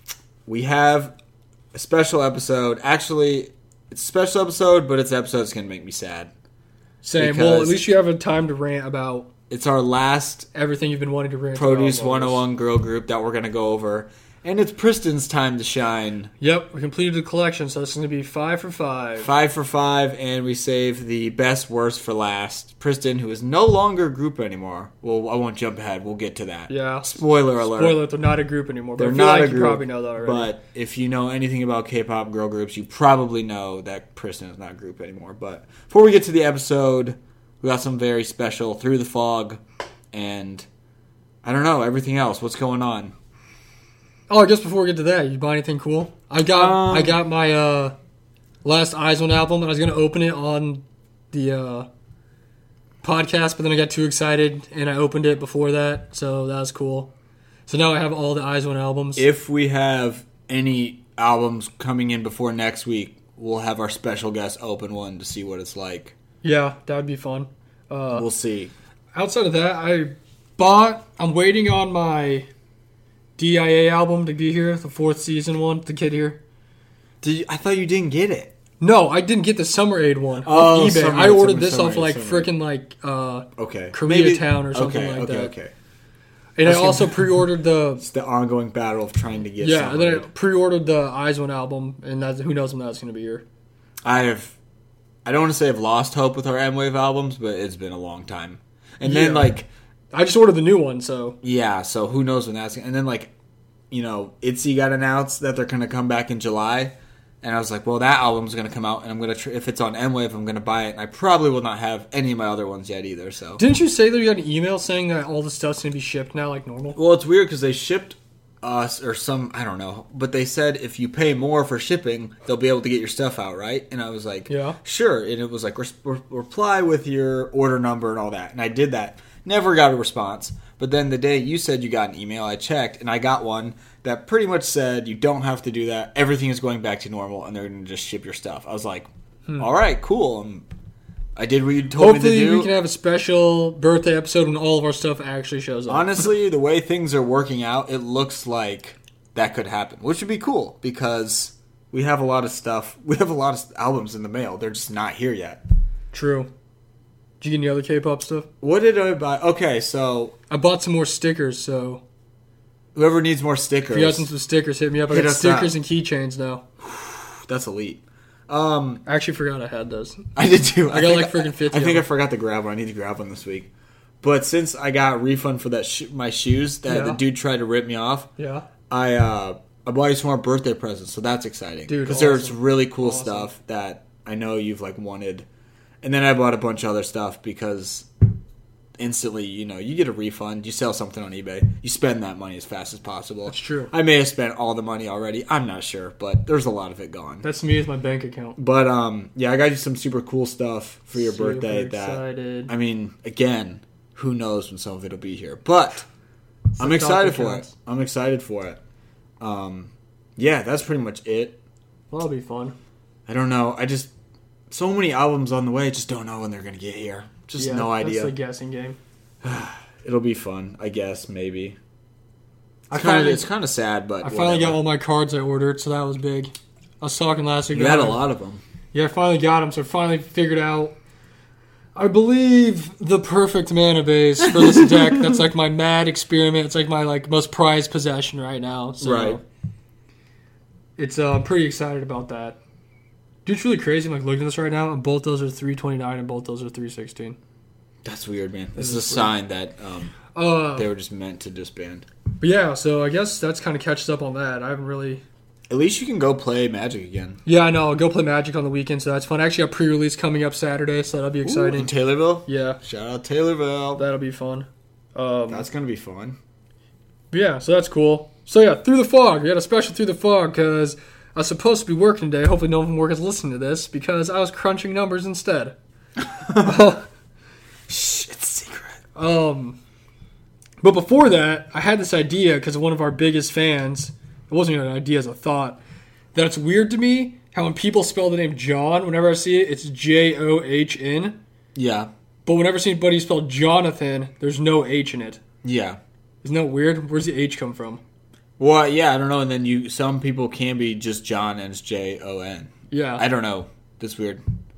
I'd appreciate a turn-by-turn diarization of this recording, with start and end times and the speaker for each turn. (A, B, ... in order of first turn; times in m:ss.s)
0:00.4-0:01.1 A
0:01.7-0:06.3 A
0:07.0-0:09.3 B
0:07.2-0:07.8 A
0:09.5-0:10.5 A
0:10.5-0:12.4 B
0:11.5-0:16.3 A
0:16.4-0:19.3 B
0:19.2-0:28.0 A
0:26.7-0:30.5 B
0:29.0-0:39.6 A
0:40.1-0:40.7 A
0:41.4-0:43.1 A
0:44.3-0:47.9 B
0:46.4-0:47.2 A
0:48.6-0:51.9 B
0:53.0-0:57.1 B
0:57.7-0:59.2 B
0:59.2-1:06.1 A
1:06.4-1:08.2 B
1:08.1-1:08.7 A
1:09.1-1:12.5 B
1:13.4-1:16.4 B
1:17.2-1:18.5 A
1:18.8-1:25.5 B
1:20.4-1:22.5 A
1:23.6-1:25.7 A
1:26.6-1:28.0 B
1:26.6-1:27.4 A
1:28.0-1:30.3 A
1:29.6-1:33.4 B
1:34.0-1:34.6 A
1:35.2-1:39.7 A
1:39.0-1:39.5 B
1:40.1-1:41.4 B
1:41.4-1:43.3 A
1:43.9-1:53.6 A
1:53.6-1:57.0 B
1:57.0-2:20.7 A
2:04.5-2:04.8 B
2:21.4-2:22.7 A
2:22.0-2:26.3 B
2:25.9-2:35.6 A
2:36.1-2:36.5 B
2:37.4-2:38.5 B
2:38.6-2:40.4 A
2:40.5-2:42.0 B
2:42.9-2:44.3 A
2:43.9-2:46.6 B
2:45.1-2:45.8 A
2:46.8-2:49.0 A
2:49.0-2:50.3 B
2:50.4-2:53.7 A
2:50.9-2:52.0 B
2:54.2-2:58.3 A
2:56.9-2:57.2 B
2:58.4-2:58.6 B
2:58.9-3:05.4 A
3:01.9-3:03.5 B
3:06.0-3:08.1 A
3:09.0-3:17.4 A
3:13.5-3:13.9 B
3:17.4-3:18.6 B
3:18.6-3:26.1 A
3:21.2-3:22.7 B
3:26.8-3:27.7 B
3:26.8-3:28.8 A
3:29.4-3:31.6 A
3:32.1-3:32.7 B
3:33.3-3:34.1 A
3:34.7-3:38.3 A
3:37.6-3:39.0 B
3:39.4-3:41.8 A
3:42.9-3:43.4 B
3:42.9-3:44.8 A
3:44.2-3:48.2 B
3:47.7-3:48.6 A
3:48.9-3:50.9 B
3:51.9-3:59.4 B
3:54.5-3:55.4 A
3:59.0-3:59.4 A
4:01.0-4:02.6 B
4:03.4-4:07.4 B
4:08.0-4:10.2 A
4:08.8-4:09.3 B
4:10.3-4:10.9 B
4:10.8-4:12.0 A
4:12.4-4:15.2 B
4:15.7-4:17.4 A
4:17.4-4:21.9 B
4:21.4-4:24.0 A
4:22.4-4:22.8 B
4:24.0-4:25.7 B
4:25.5-4:26.4 A
4:27.3-4:35.7 B
4:36.2-4:36.9 A
4:36.6-4:37.0 B
4:37.9-4:39.0 A
4:39.1-4:39.8 B
4:40.8-4:45.8 B
4:46.3-4:51.4 B
4:51.7-4:52.1 A
4:52.4-4:55.4 B
4:55.6-4:56.0 A
4:56.4-4:58.0 B
4:58.6-5:04.4 A
5:02.9-5:03.2 B